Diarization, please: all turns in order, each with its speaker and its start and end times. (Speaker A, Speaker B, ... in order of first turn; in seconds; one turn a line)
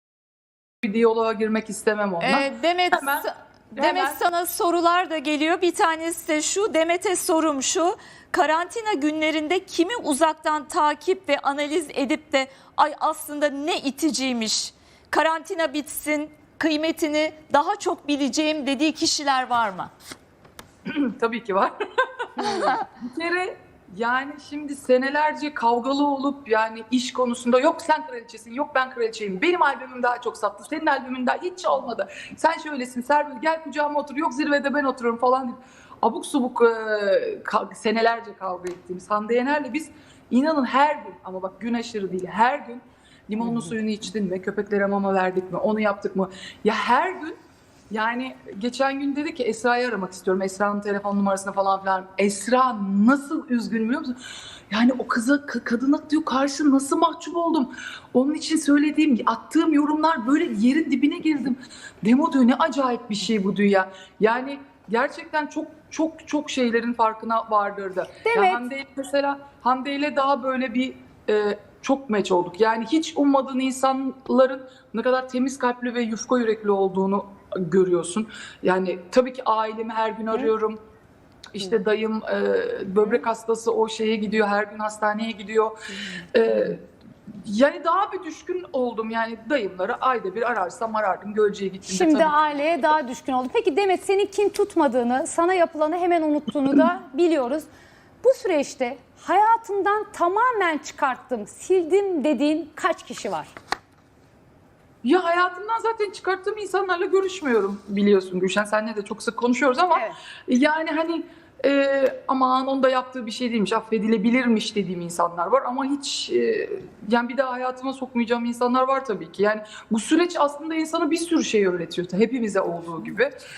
Speaker A: 0.8-4.2
Speaker B: 2.2-19.9
Speaker A: 20.9-21.7
Speaker A: 22.4-47.4
Speaker B: 22.4-22.8
Speaker A: 47.9-54.2
Speaker A: 54.7-80.8
Speaker C: 68.2-68.7
Speaker A: 81.5-92.7
Speaker C: 91.9-97.7
Speaker C: 98.2-103.5
Speaker A: 105.0-123.4